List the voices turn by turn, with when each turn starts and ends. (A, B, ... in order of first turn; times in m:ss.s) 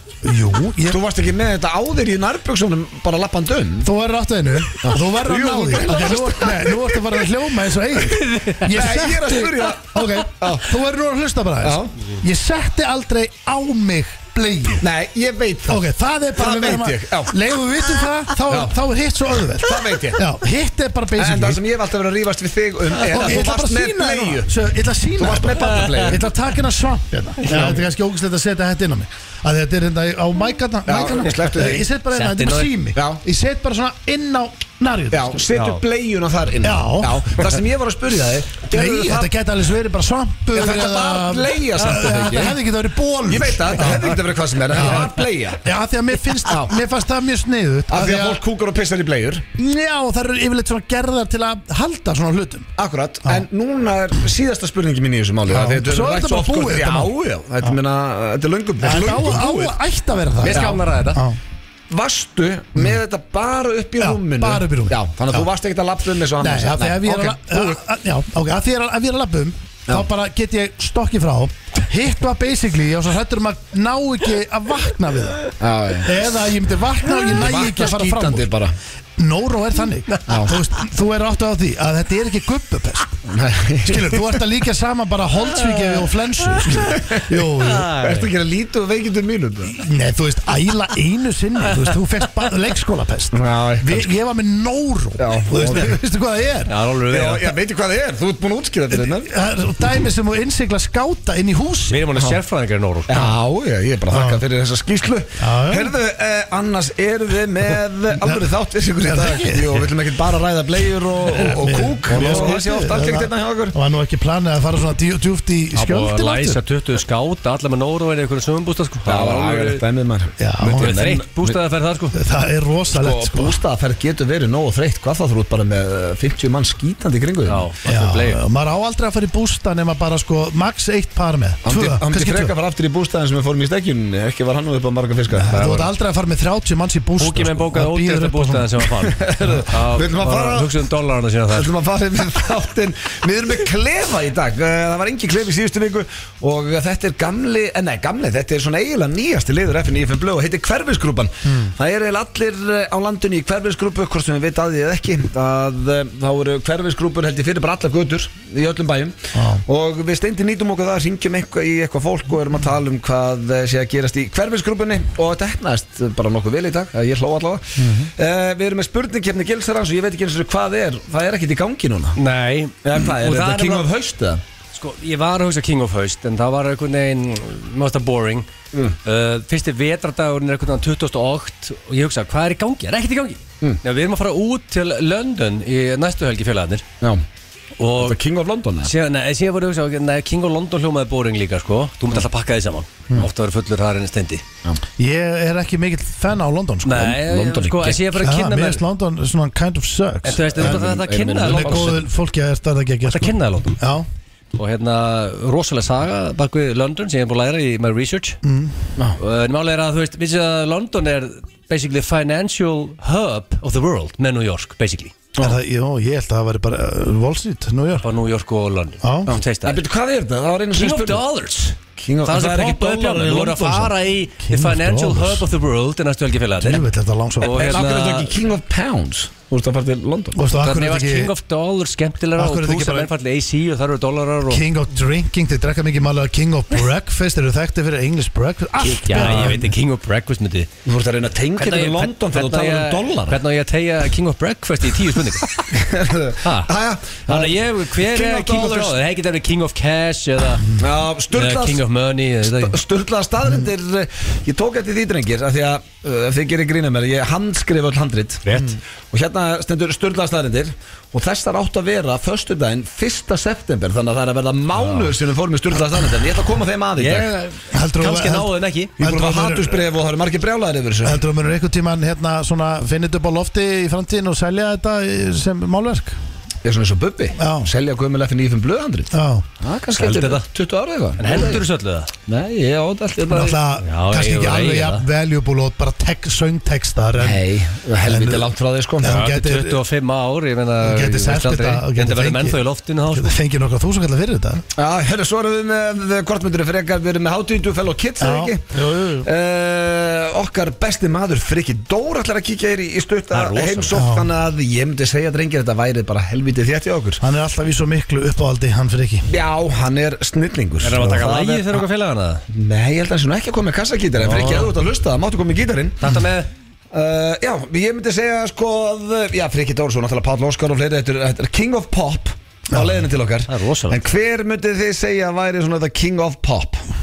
0:00.2-0:01.0 A
0:00.9-0:03.9 B
0:03.8-0:14.8 A
0:04.8-0:07.2 B
0:08.3-0:08.6 C
0:08.6-0:10.7 B
0:11.6-0:12.0 B
0:14.8-0:15.8 B
0:15.7-0:21.6 A
0:16.4-0:17.4 B
0:18.5-0:18.7 B
0:19.6-0:20.2 B
0:21.2-0:24.5 B
0:23.0-0:35.4 A
0:25.2-0:26.2 B
0:25.7-0:26.1 C
0:27.4-0:27.8 B
0:30.8-0:31.8 B
0:32.1-0:32.7 C
0:32.9-0:33.2 B
0:35.1-0:39.3 B
0:35.5-0:35.8 C
0:36.6-0:37.3 A
0:38.7-0:44.2 A
0:40.5-0:42.6 B
0:43.3-0:45.6 B
0:44.7-0:48.4 A
0:46.4-0:46.7 B
0:47.9-0:49.5 B
0:49.6-0:52.7 A
0:52.8-0:59.8 B
0:55.5-0:57.1 A
0:58.8-1:01.4 A
1:00.4-1:01.2 C
1:00.5-1:00.8 B
1:01.9-1:07.8 B
1:04.0-1:05.5 A
1:06.4-1:15.5 A
1:15.6-1:16.2 B
1:16.0-1:18.5 A
1:17.2-1:18.7 B
1:19.2-1:23.2 A
1:20.3-1:20.6 B
1:23.3-1:24.4 B
1:23.8-1:27.9 A
1:26.7-1:27.4 B
1:27.6-1:28.3 C
1:28.0-1:29.8 B
1:29.7-1:36.7 A
1:33.3-1:34.1 B
1:35.2-1:36.0 B
1:36.7-1:37.5 C
1:37.1-1:39.3 B
1:38.9-1:42.0 A
1:41.9-1:43.3 C
1:43.1-1:53.8 B
1:44.1-1:44.4 A
1:45.4-1:45.9 A
1:49.0-1:49.8 A
1:51.3-1:56.6 A
1:52.1-1:52.6 C
1:55.7-1:59.8 C
1:59.0-2:01.6 B
2:00.4-2:01.0 A
2:00.8-2:02.2 C
2:02.1-2:03.6 A
2:02.9-2:07.6 B
2:07.5-2:08.4 C
2:07.8-2:12.5 A
2:11.6-2:15.6 B
2:15.3-2:18.7 A
2:15.5-2:15.9 C
2:17.2-2:21.7 C
2:19.1-2:20.7 B
2:21.5-2:52.2 B
2:31.4-2:31.7 A
2:39.3-2:39.6 A
2:47.8-2:48.1 A
2:52.2-2:53.9 C
2:52.8-2:54.4 B
2:54.7-2:58.5 C
2:59.0-3:06.8 C
3:07.8-3:08.2 C
3:08.0-3:08.9 B
3:08.8-3:14.4 C
3:15.0-3:17.2 A
3:16.8-3:18.8 C
3:17.2-3:18.2 B
3:18.2-3:24.0 A
3:20.2-3:22.0 C
3:20.5-3:21.9 B
3:23.0-3:23.8 C
3:24.5-3:28.4 C
3:28.4-3:28.8 A
3:29.2-3:35.1 C
3:35.4-3:38.1 A
3:38.0-3:39.8 C
3:39.0-3:39.3 A
3:39.3-3:41.2 B
3:40.7-3:46.8 C
3:42.0-3:43.9 B
3:44.4-3:45.4 A
3:46.6-3:47.7 A
3:47.4-3:48.3 C
3:47.4-3:50.4 B
3:50.3-3:51.3 A
3:50.5-3:54.6 C
3:52.3-3:53.1 A
3:54.5-3:59.7 A
3:58.8-4:00.7 C
4:00.8-4:03.4 B
4:01.6-4:05.6 C
4:05.5-4:09.0 B
4:06.4-4:06.7 C
4:07.3-4:10.7 C
4:10.8-4:11.8 B
4:11.3-4:12.8 C
4:12.4-4:18.5 B
4:18.4-4:18.8 C
4:19.1-4:27.3 B
4:24.8-4:25.1 C
4:27.0-4:28.9 C
4:27.7-4:29.9 A
4:29.0-4:31.2 B
4:31.0-4:36.2 A
4:36.6-4:41.6 B
4:37.4-4:37.7 A
4:39.1-4:39.4 A
4:40.0-4:40.5 C
4:41.2-4:42.1 C
4:42.3-4:43.6 B
4:43.3-4:47.5 A
4:43.8-4:45.0 C
4:47.2-4:49.2 B
4:48.0-4:49.8 A
4:49.0-4:53.4 C
4:50.8-4:54.6 A
4:54.8-5:07.2 B
4:58.2-4:59.3 A
5:03.3-5:03.9 C
5:03.9-5:04.3 A
5:07.2-5:09.3 A
5:09.3-5:11.8 B
5:10.8-5:12.4 C
5:12.5-5:16.2 B
5:14.2-5:14.6 C
5:16.0-5:16.5 C
5:16.9-5:26.8 B
5:22.7-5:23.1 A
5:23.5-5:24.0 C